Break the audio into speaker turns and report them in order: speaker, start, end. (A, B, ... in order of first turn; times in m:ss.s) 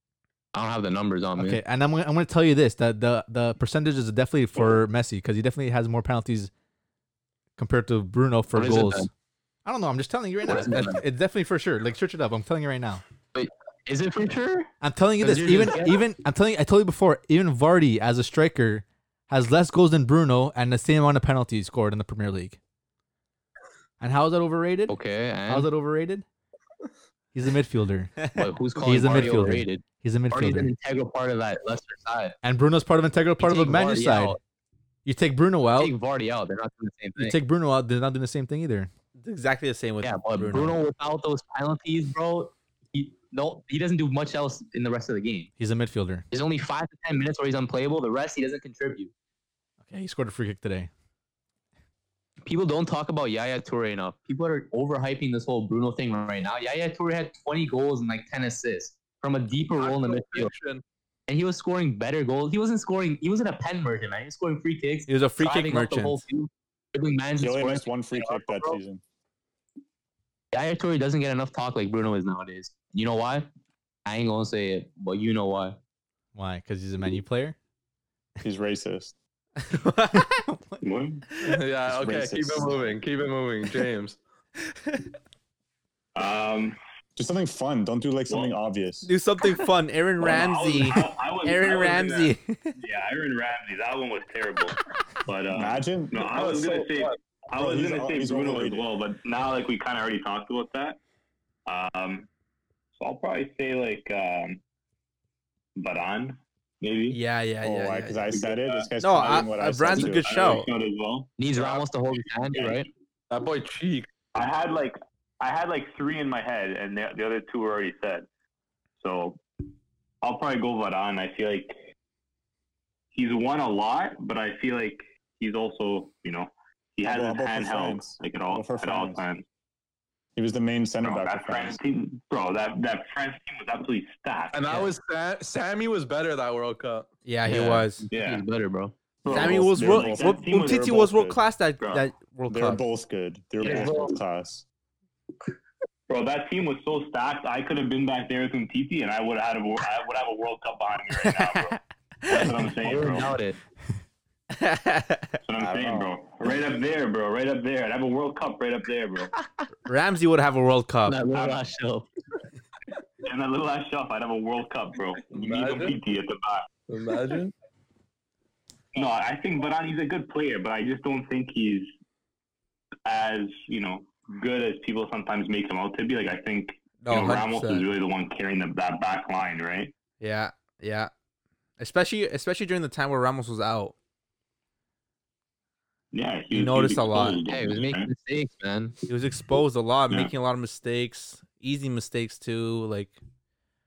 0:00.5-0:01.6 A
0:01.4-0:06.5 B
0:07.6-0:09.1 B
0:08.6-0:09.1 A
0:09.6-0:13.0 B
0:10.5-0:11.0 A
0:13.3-0:16.0 A
0:14.8-0:22.6 B
0:24.0-0:25.0 B
0:24.9-0:25.7 A
0:25.5-0:26.2 B
0:27.3-0:30.7 B
0:28.4-0:32.4 A
0:32.4-0:34.4 B
0:33.4-0:34.4 A
0:35.0-0:35.9 B
0:35.7-0:37.4 A
0:37.2-0:38.9 B
0:39.2-0:40.8 C
0:40.0-0:45.5 A
0:45.6-0:46.3 B
0:46.3-0:49.1 A
0:49.8-0:50.9 B
0:52.4-1:00.5 A
0:59.8-1:00.8 D
1:01.3-1:08.8 A
1:05.1-1:06.2 C
1:07.4-1:09.0 E
1:10.5-1:13.5 A
1:14.0-1:15.8 A
1:16.4-1:17.6 B
1:18.4-1:19.1 E
1:19.6-1:20.4 C
1:20.1-1:20.8 B
1:20.8-1:21.2 F
1:21.4-1:24.2 D
1:21.8-1:23.0 E
1:26.2-1:26.8 F
1:27.2-1:29.1 E
1:29.1-1:32.7 C
1:30.2-1:41.0 F
1:35.5-1:36.2 E
1:36.2-1:37.2 D
1:37.6-1:38.9 E
1:41.7-1:42.3 F
1:43.0-1:44.6 F
1:45.8-1:47.2 F
1:47.1-1:48.4 C
1:47.6-1:50.6 E
1:48.4-1:51.3 F
1:49.0-1:50.7 C
1:51.4-1:52.9 A
1:51.5-1:51.9 D
1:52.5-1:54.1 D
1:54.4-1:58.3 F
1:59.0-1:59.4 F
2:00.2-2:01.8 F
2:03.1-2:09.4 F
2:07.0-2:09.2 E
2:10.4-2:11.8 E
2:11.0-2:14.8 F
2:14.5-2:17.1 D
2:17.3-2:18.1 C
2:17.4-2:19.0 A
2:18.1-2:18.4 F
2:19.2-2:21.4 E
2:19.3-2:20.9 F
2:19.3-2:22.8 C
2:21.8-2:22.0 F
2:22.5-2:24.6 E
2:23.6-2:24.2 D
2:26.1-2:33.3 F
2:31.2-2:32.6 C
2:32.8-2:33.6 A
2:34.5-2:35.4 C
2:35.4-2:39.3 F
2:35.6-2:36.1 E
2:39.9-2:41.2 C
2:41.1-2:42.1 A
2:43.2-2:46.7 F
2:45.3-2:46.0 D
2:46.9-2:47.5 D
2:48.9-2:51.9 F
2:53.0-2:59.9 F
2:57.0-2:57.9 C
3:00.2-3:01.1 C
3:01.8-3:04.0 C
3:06.1-3:08.1 F
3:06.5-3:07.4 C
3:07.5-3:09.0 A
3:09.1-3:13.2 C